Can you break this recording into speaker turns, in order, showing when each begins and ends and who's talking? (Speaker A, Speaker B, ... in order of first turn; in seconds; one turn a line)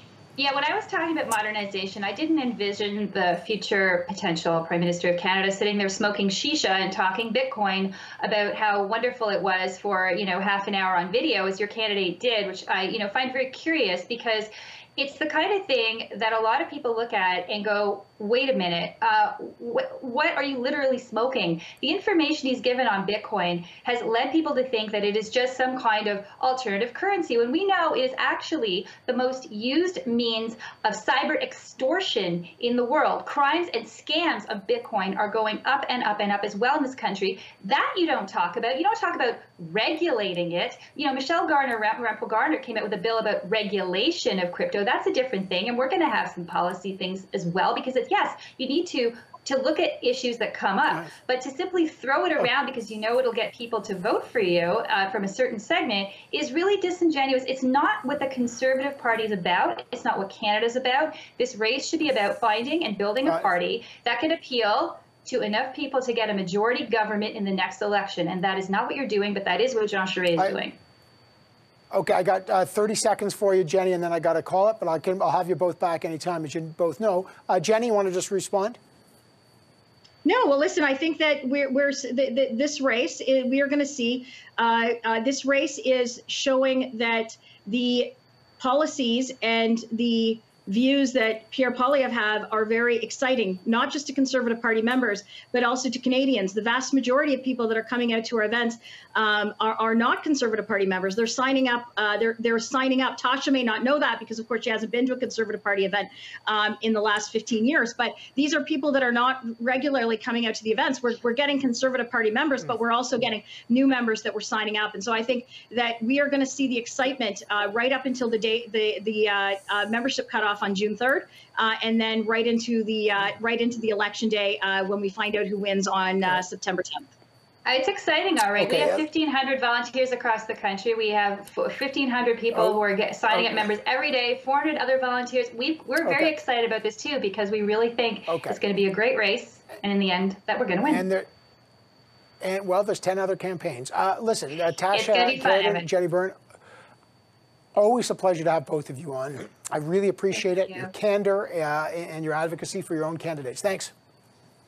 Speaker A: 0.4-70.8
Speaker B: 71.9-78.8
Speaker C: 80.2-127.1
Speaker A: 127.7-141.1
Speaker B: 128.6-129.1
Speaker B: 136.0-136.3
Speaker B: 138.3-138.6
Speaker B: 140.9-141.3
Speaker B: 142.4-146.4
Speaker A: 144.9-145.9
Speaker B: 147.8-153.9
Speaker A: 150.6-150.9